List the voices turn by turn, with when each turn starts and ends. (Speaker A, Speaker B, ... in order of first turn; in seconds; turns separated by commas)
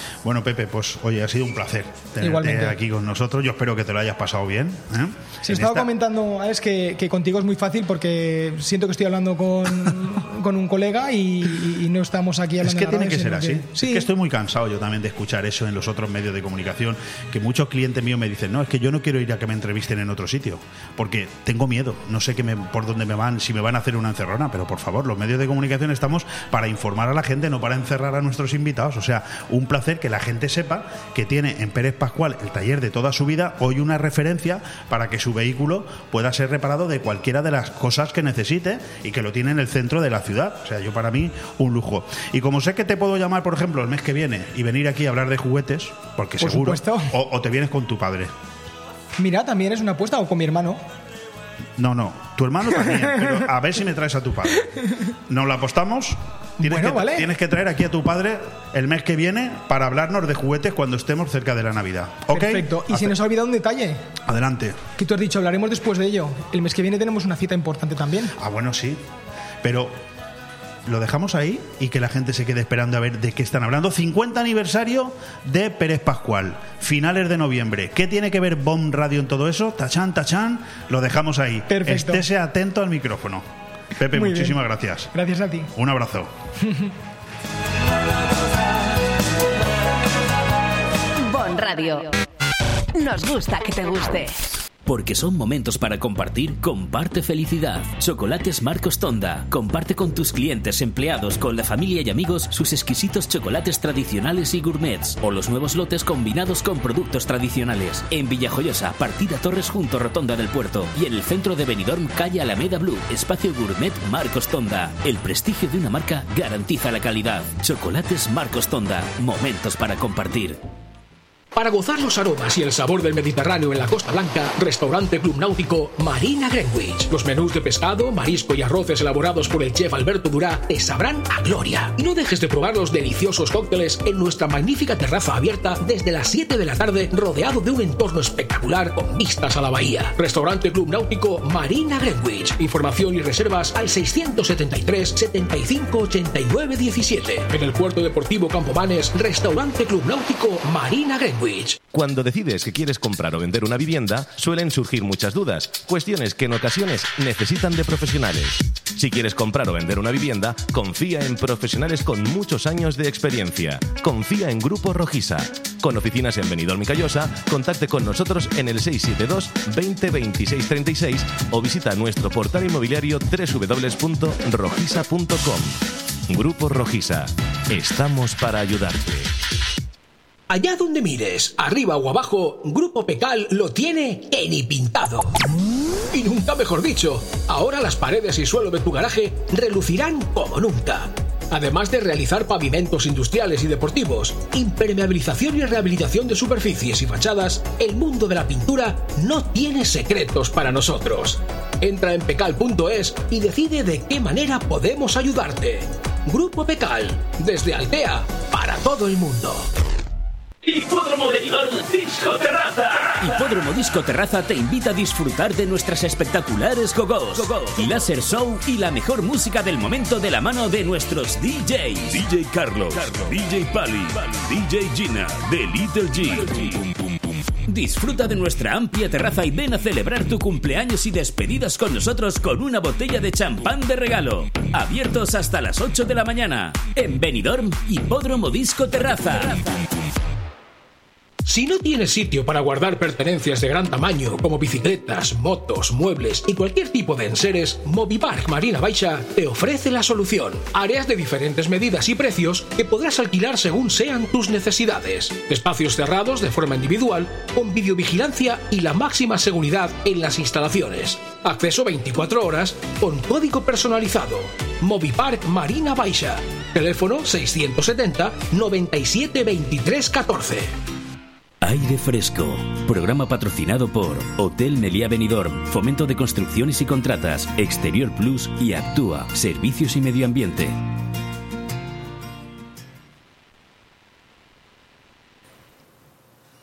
Speaker A: 0.2-5.9, Speaker B: 2.2-2.8, Speaker B: 5.4-14.1, Speaker A: 12.6-48.3, Speaker B: 46.4-47.1, Speaker B: 49.2-50.8, Speaker A: 51.8-54.7, Speaker A: 55.3-63.2, Speaker B: 56.6-57.3, Speaker B: 62.3-64.0, Speaker A: 64.3-64.8, Speaker B: 65.0-68.3, Speaker A: 68.4-69.0, Speaker A: 69.6-70.0, Speaker A: 70.9-85.1, Speaker B: 81.7-82.3, Speaker B: 84.1-85.7, Speaker A: 85.8-86.3, Speaker B: 86.6-86.9, Speaker C: 91.2-92.1, Speaker C: 92.9-94.5, Speaker D: 94.9-120.6, Speaker E: 121.5-151.8, Speaker F: 151.9-179.3, Speaker E: 180.5-185.4, Speaker E: 186.1-209.7, Speaker D: 210.7-226.9, Speaker D: 227.7-239.8, Speaker E: 241.4-270.7, Speaker D: 271.6-280.8